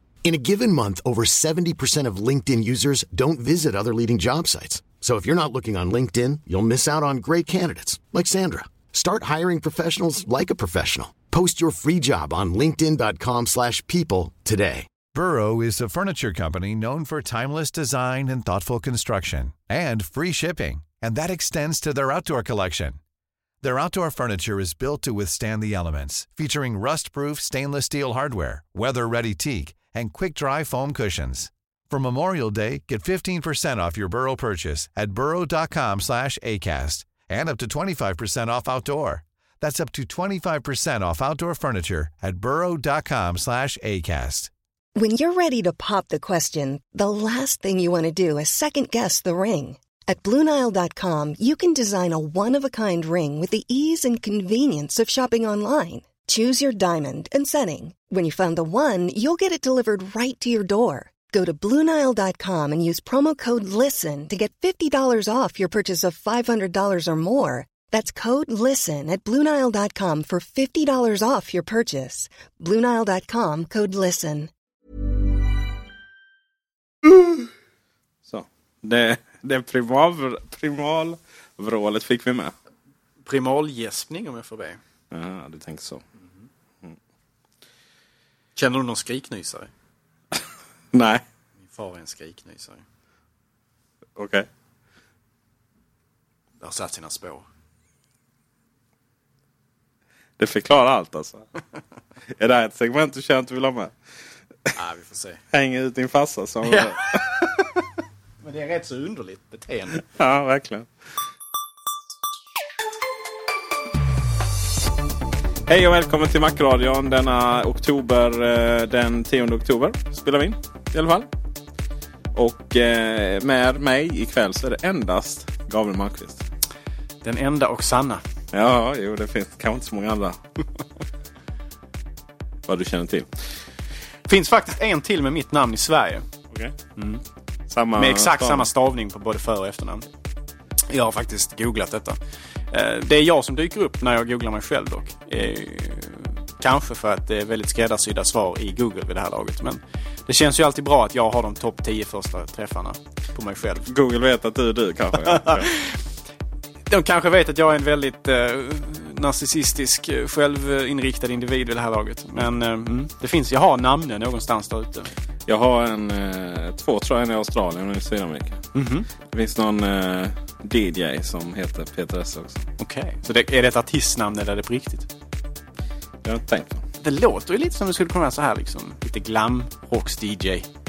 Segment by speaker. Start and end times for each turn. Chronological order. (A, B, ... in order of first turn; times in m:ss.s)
0:00.2-0:15.0 A
0:15.1-0:23.0 B
0:23.6-0:44.5 B
0:45.0-1:14.5 C
1:18.3-1:22.5 D
1:23.2-1:24.8 E
1:25.1-1:26.1 D
1:28.6-1:29.7 E
1:30.9-1:31.2 D
1:31.6-1:32.8 E
1:34.2-1:34.5 D
1:36.6-1:37.4 E
1:40.4-1:41.4 D
1:42.4-1:43.9 D
1:44.7-1:45.4 E
1:45.5-1:47.2 D
1:46.7-1:47.5 E
1:48.4-1:50.0 E
1:50.1-1:50.9 D
1:55.7-2:01.3 D
2:02.3-2:06.4 D
2:07.2-2:08.2 E
2:08.5-2:10.4 D
2:12.7-2:13.3 D
2:14.3-2:16.2 E
2:17.0-2:17.2 E
2:17.7-2:18.6 D
2:18.0-2:20.0 E
2:20.9-2:22.2 E
2:22.7-2:33.8 E
2:33.8-2:35.7 D
2:35.3-2:36.0 E
2:36.9-2:45.1 E
2:45.5-2:48.6 D
2:48.7-2:49.1 E
2:49.3-2:52.6 D
2:52.8-2:55.1 E
2:56.2-2:56.8 D
2:57.0-3:00.7 E